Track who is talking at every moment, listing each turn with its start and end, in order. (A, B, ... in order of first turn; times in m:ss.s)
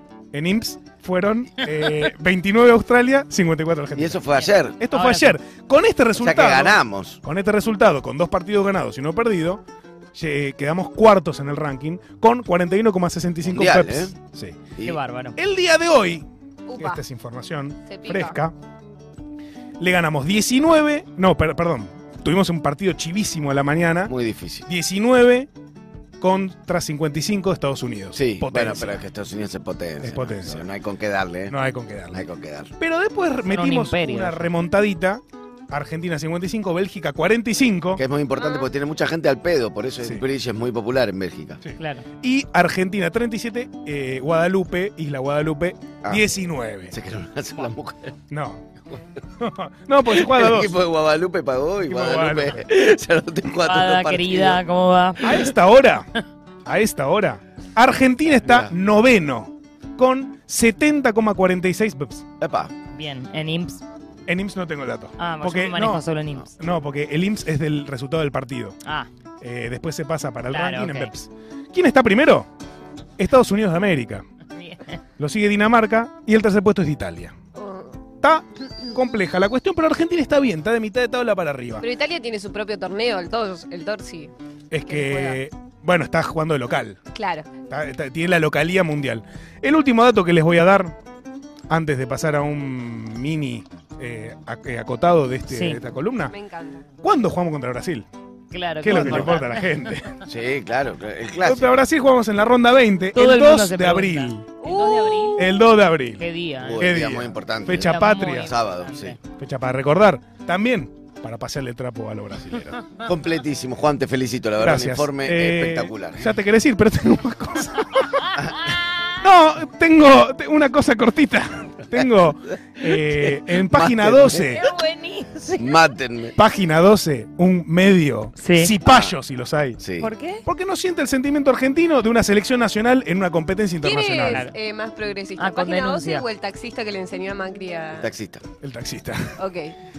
0:00.3-0:04.2 A
0:01.8-0:02.1 B
0:03.9-0:04.8 C
0:04.3-0:05.4 B
0:04.8-0:09.6 A
0:06.1-0:07.2 C
0:10.1-0:14.6 A
0:13.4-0:14.1 C
0:14.8-0:15.4 B
0:15.4-0:18.5 A
0:16.7-0:17.0 D
0:17.9-0:18.4 D
0:19.8-0:24.1 A
0:24.1-0:24.7 C
0:24.7-0:25.5 A
0:26.2-0:29.0 A
0:28.1-0:31.6 C
0:30.0-0:30.7 A
0:31.5-0:32.2 A
0:32.1-0:32.7 C
0:32.8-0:38.0 A
0:33.4-0:34.5 B
0:38.0-0:41.6 C
0:38.4-0:38.7 D
0:41.6-0:46.9 A
0:41.8-0:42.0 B
0:46.9-0:48.2 C
0:48.3-0:48.7 A
0:49.4-0:50.8 A
0:50.0-0:54.6 C
0:51.8-0:52.7 A
0:53.5-0:55.5 B
0:55.2-0:56.1 A
0:56.6-1:02.2 A
0:58.4-0:58.7 C
1:02.4-1:02.7 C
1:02.9-1:03.8 B
1:04.3-1:08.8 A
1:05.2-1:06.5 B
1:09.4-1:12.5 A
1:10.5-1:11.1 B
1:13.2-1:14.2 A
1:14.6-1:15.0 B
1:15.2-1:17.3 A
1:17.6-1:18.0 D
1:18.2-1:21.8 A
1:21.8-1:24.3 D
1:24.7-1:27.0 A
1:24.9-1:25.4 D
1:27.1-1:27.5 D
1:27.7-1:30.9 A
1:31.7-1:36.3 A
1:35.5-1:35.8 B
1:36.3-1:36.8 D
1:37.0-1:38.0 A
1:38.5-1:40.0 B
1:38.8-1:40.1 A
1:38.9-1:39.3 C
1:40.3-1:41.7 C
1:41.4-1:44.4 A
1:43.1-1:45.5 B
1:44.6-1:45.5 D
1:45.4-1:46.3 A
1:46.2-1:46.9 B
1:46.6-1:49.2 C
1:46.8-1:48.5 A
1:47.7-1:49.2 B
1:49.4-1:52.8 A
1:53.0-1:56.3 C
1:54.6-1:58.4 A
1:58.2-1:58.7 B
1:59.2-2:04.7 A
2:02.9-2:04.6 C
2:04.4-2:05.7 B
2:05.6-2:06.4 C
2:06.4-2:09.8 A
2:08.4-2:08.7 B
2:08.8-2:09.1 C
2:09.8-2:10.1 C
2:10.0-2:10.4 B
2:10.4-2:14.4 A
2:13.8-2:18.1 D
2:14.2-2:14.6 B
2:15.4-2:16.3 B
2:18.0-2:18.4 C
2:18.6-2:19.4 A
2:19.4-2:19.8 D